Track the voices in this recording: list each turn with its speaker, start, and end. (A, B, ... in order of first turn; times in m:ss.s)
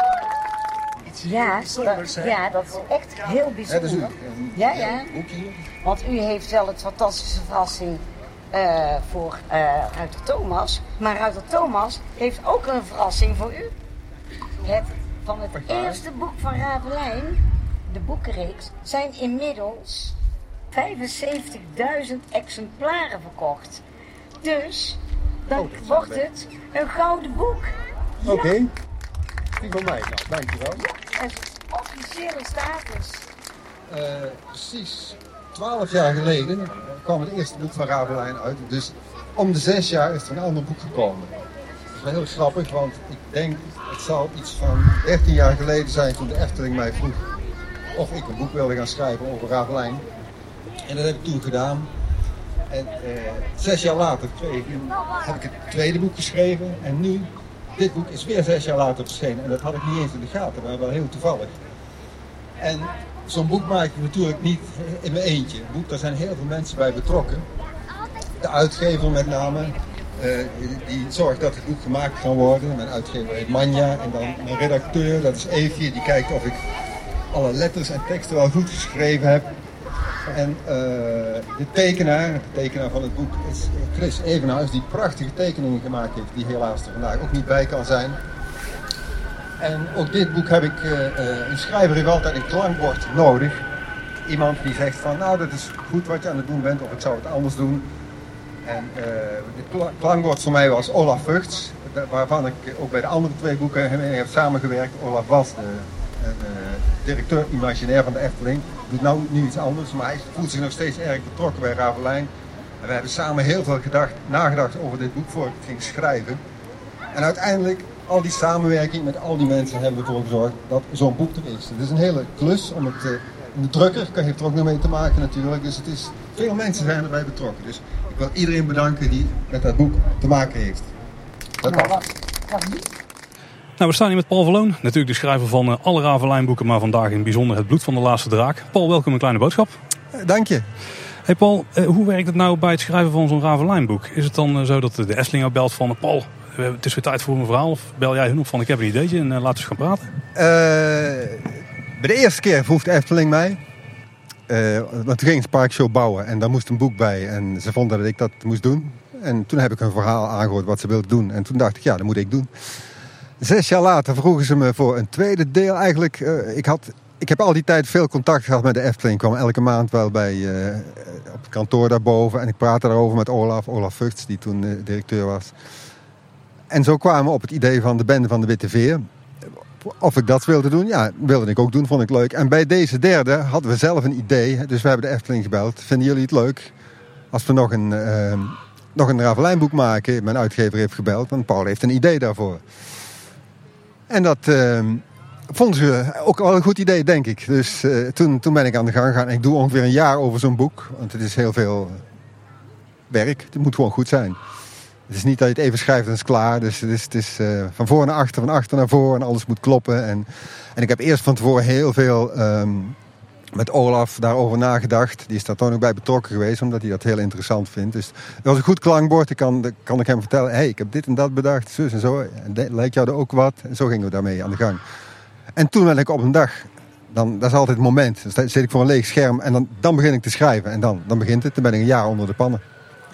0:01.2-0:05.1 A
0:03.7-0:05.6 B
0:05.8-0:13.7 A
0:14.6-0:20.2 A
0:15.5-0:16.0 B
0:20.7-0:23.8 A
0:24.4-0:27.7 A
0:25.5-0:26.2 B
0:28.2-0:28.7 B
0:29.6-0:30.8 B
0:30.8-0:33.3 A
0:33.9-0:41.3 B
0:41.9-0:47.2 B
0:47.9-0:50.0 B
0:50.8-0:51.9 B
0:52.7-1:01.6 B
1:02.6-1:07.4 B
1:08.4-1:16.6 B
1:17.3-1:19.5 B
1:20.3-1:28.2 B
1:29.6-1:33.6 B
1:34.2-1:37.9 B
1:38.6-1:52.3 B
1:52.8-1:56.4 B
1:57.1-2:10.9 B
2:11.6-2:12.0 B
2:11.6-2:12.8 A
2:13.8-2:19.7 C
2:20.1-2:20.6 B
2:21.3-2:30.1 C
2:30.3-2:33.6 B
2:34.5-2:42.5 B
2:43.4-2:55.5 B
2:56.7-2:59.0 B
2:59.8-3:06.7 B
3:07.3-3:12.6 B
3:14.1-3:22.0 B
3:23.1-3:24.4 B
3:25.1-3:33.0 B
3:33.5-3:44.8 B
3:45.6-3:52.6 B